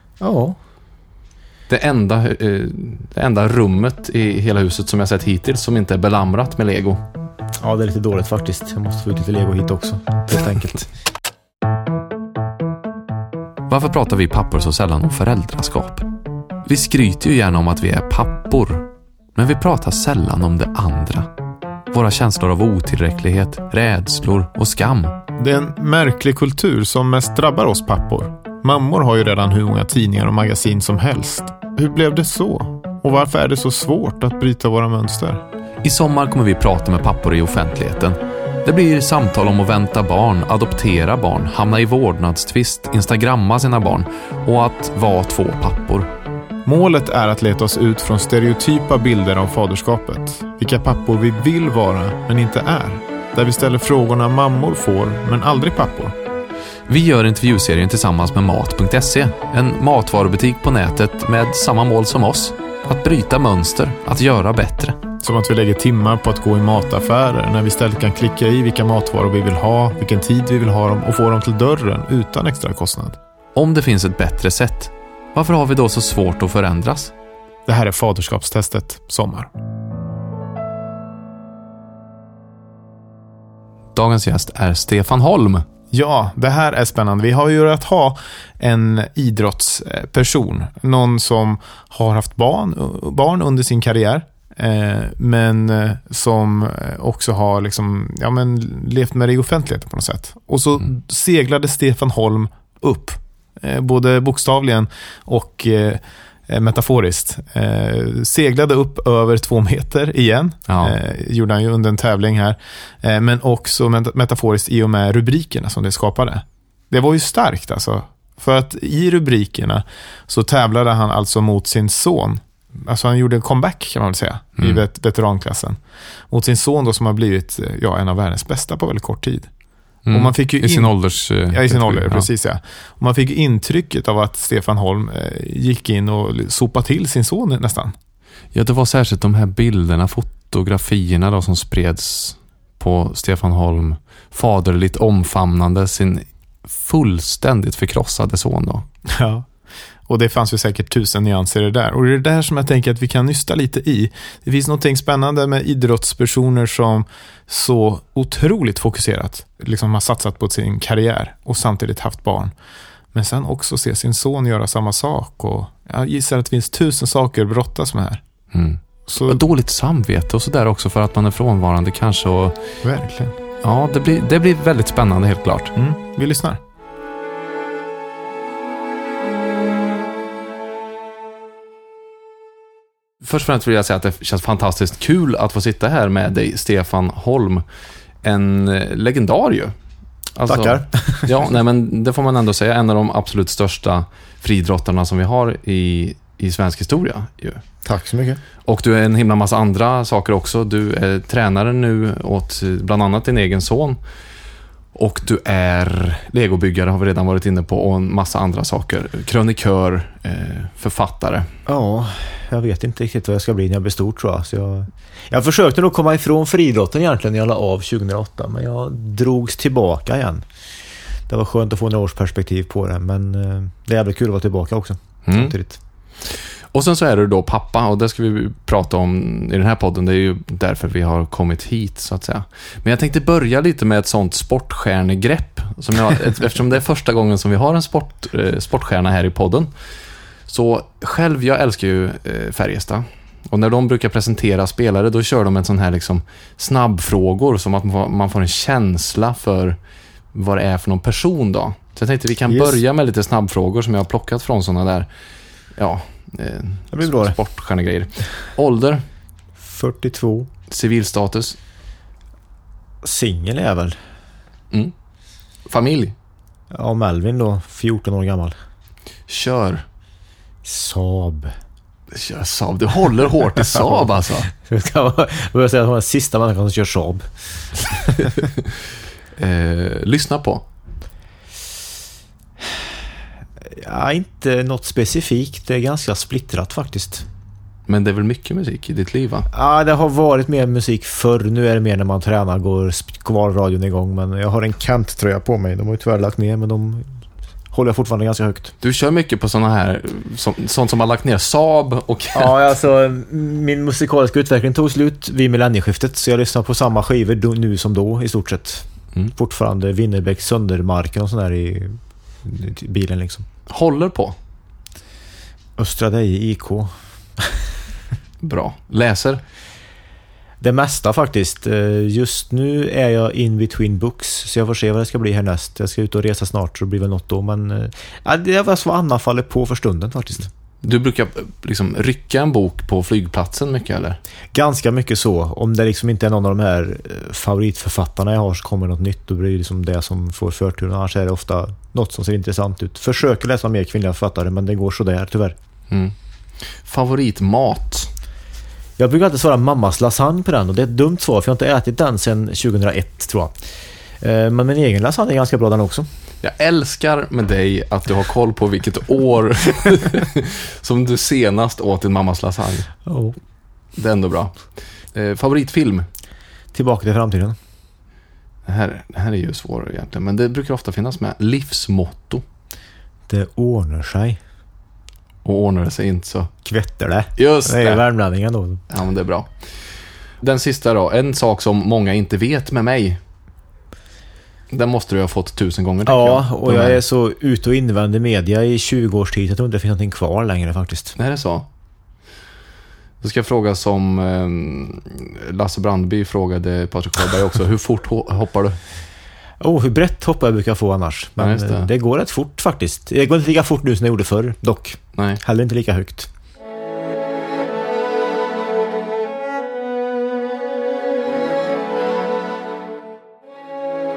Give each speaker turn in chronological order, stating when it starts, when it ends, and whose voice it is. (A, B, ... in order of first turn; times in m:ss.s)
0:00.2-0:00.6 A
0:01.7-0:07.0 B
0:07.6-0:10.9 A
0:13.7-0:16.1 B
0:16.6-0:21.3 B
0:21.9-0:25.2 B
0:25.4-0:35.4 C
0:35.8-0:46.1 B
0:46.6-0:56.2 C
0:56.9-1:05.0 B
1:05.2-1:13.2 C
1:13.6-1:17.1 B
1:17.7-1:19.5 C
1:24.0-1:25.7 B
1:25.9-2:05.8 C
1:50.7-1:51.0 B
2:06.3-2:09.5 C
2:10.1-2:12.3 B
2:10.1-2:18.0 C
2:18.5-2:28.9 B
2:29.1-2:29.5 C
2:30.1-2:42.5 C
2:43.1-2:48.2 C
2:48.5-2:52.6 B
2:49.1-2:49.4 C
2:52.8-2:53.4 C
2:53.6-2:55.7 B
2:55.8-2:56.6 C
3:03.2-3:07.6 B
3:08.2-3:09.7 B
3:10.4-3:17.6 B
3:10.5-3:11.3 A
3:17.8-3:18.4 A
3:18.7-3:24.0 B
3:25.0-3:31.5 B
3:31.7-3:40.4 A
3:41.3-3:45.8 A
3:45.3-3:45.6 B
3:46.2-3:59.7 B
4:00.5-4:09.8 B
4:10.3-4:15.1 B
4:12.5-4:12.8 A
4:15.8-4:19.0 B
4:16.9-4:17.4 A
4:19.6-4:20.5 A
4:20.7-4:21.6 B
4:23.0-4:24.0 A
4:25.7-4:26.2 B
4:26.7-4:28.6 A
4:29.3-4:29.8 B
4:30.6-4:31.6 A
4:32.1-4:34.5 B
4:33.8-4:38.4 A
4:39.4-4:40.7 B
4:43.6-4:47.3 A
4:47.9-4:49.5 B
4:49.5-4:57.1 A
4:57.7-4:58.7 A
4:58.8-5:02.6 B
5:02.3-5:13.5 A
5:13.7-5:14.4 B
5:15.8-5:17.7 A
5:18.4-5:19.4 B
5:20.6-5:30.5 A
5:30.8-5:34.2 B
5:34.5-5:45.6 A
5:45.9-5:48.1 B
5:49.0-5:53.6 A
5:54.2-5:56.1 A
5:56.4-6:02.9 B
6:03.1-6:03.4 A
6:04.0-6:06.1 B
6:06.7-6:07.6 A
6:08.6-6:12.4 B
6:13.3-6:14.4 A
6:15.4-6:16.5 B
6:16.6-6:18.8 A
6:17.4-6:18.0 B
6:18.9-6:19.5 B
6:20.4-6:23.2 B
6:24.7-6:27.0 B
6:26.1-6:31.2 A
6:31.2-6:31.7 B
6:33.2-6:38.8 B
6:39.6-6:46.3 A
6:41.4-6:41.9 B
6:45.2-6:45.4 B